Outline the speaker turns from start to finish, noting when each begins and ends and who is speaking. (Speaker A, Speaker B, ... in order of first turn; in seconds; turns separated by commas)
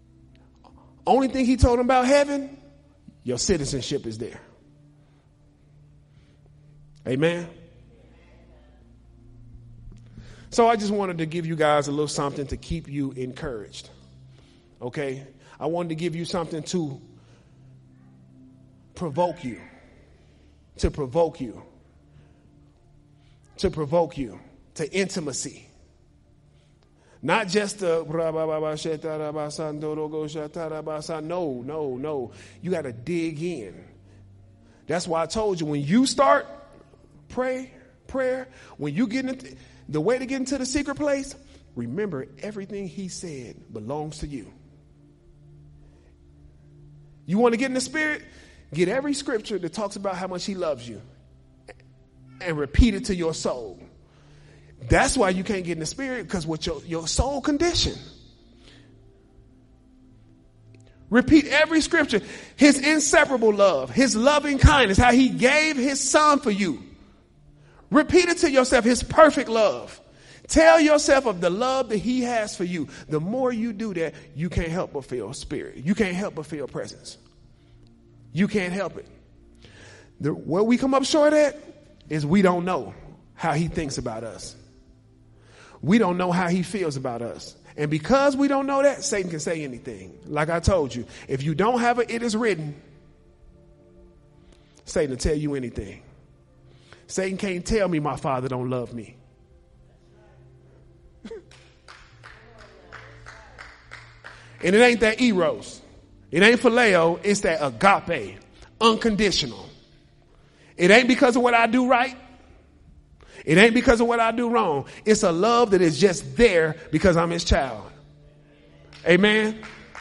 Speaker A: 1.1-2.5, Speaker A: 3.2-4.4, Speaker A: 7.0-7.5, Speaker A: 10.5-13.9, Speaker A: 14.8-17.0, Speaker A: 18.9-19.6, Speaker A: 20.8-21.6, Speaker A: 23.6-25.7, Speaker A: 27.2-33.9, Speaker A: 34.9-36.5, Speaker A: 37.3-44.5, Speaker A: 47.3-51.0, Speaker A: 52.4-53.8, Speaker A: 54.8-58.0, Speaker A: 61.1-66.8, Speaker A: 67.9-77.2, Speaker A: 78.3-79.1, Speaker A: 80.2-81.6, Speaker A: 82.1-84.6, Speaker A: 85.8-92.8, Speaker A: 94.8-96.0, Speaker A: 97.1-99.2, Speaker A: 104.6-109.7, Speaker A: 110.8-112.2, Speaker A: 113.5-117.9, Speaker A: 119.0-119.6